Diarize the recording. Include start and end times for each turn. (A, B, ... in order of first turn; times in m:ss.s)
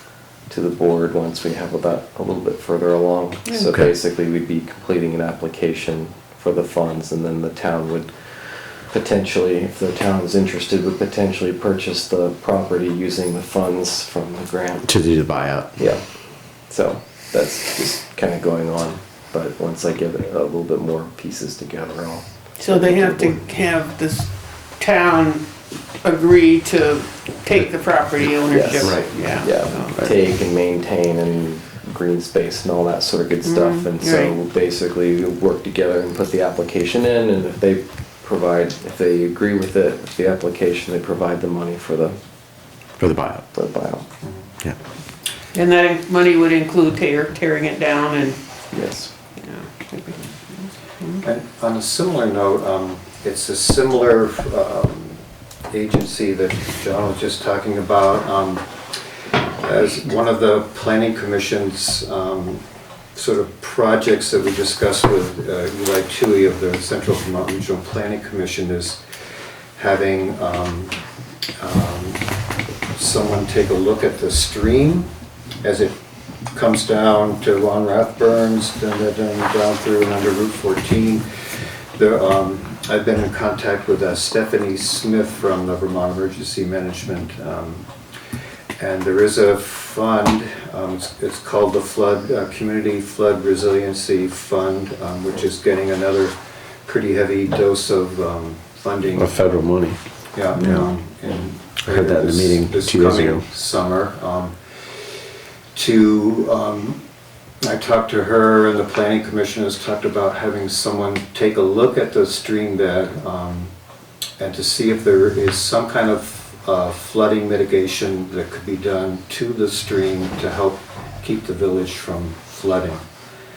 0:00.5-0:15.0 A
0:14.8-0:15.8 B
0:15.8-0:23.4 A
0:22.6-0:25.4 C
0:26.0-0:30.1 C
0:28.5-0:42.2 A
0:28.8-0:29.1 B
0:33.4-0:34.4 C
0:43.0-0:43.4 B
0:43.5-0:44.0 A
0:44.2-0:44.5 D
0:45.5-0:48.4 C
0:48.7-0:49.1 A
0:49.4-0:51.2 C
0:51.2-0:58.7 D
0:59.6-1:02.6 D
1:03.1-1:09.0 D
1:09.8-1:11.0 D
1:11.6-1:12.2 D
1:12.9-1:15.1 D
1:15.6-1:16.0 D
1:16.5-1:21.2 D
1:22.0-1:27.9 D
1:28.8-1:39.3 D
1:39.2-1:40.0 B
1:40.3-1:44.5 D
1:41.8-1:43.5 B
1:45.7-1:47.0 D
1:47.6-1:53.7 D
1:54.4-2:03.0 D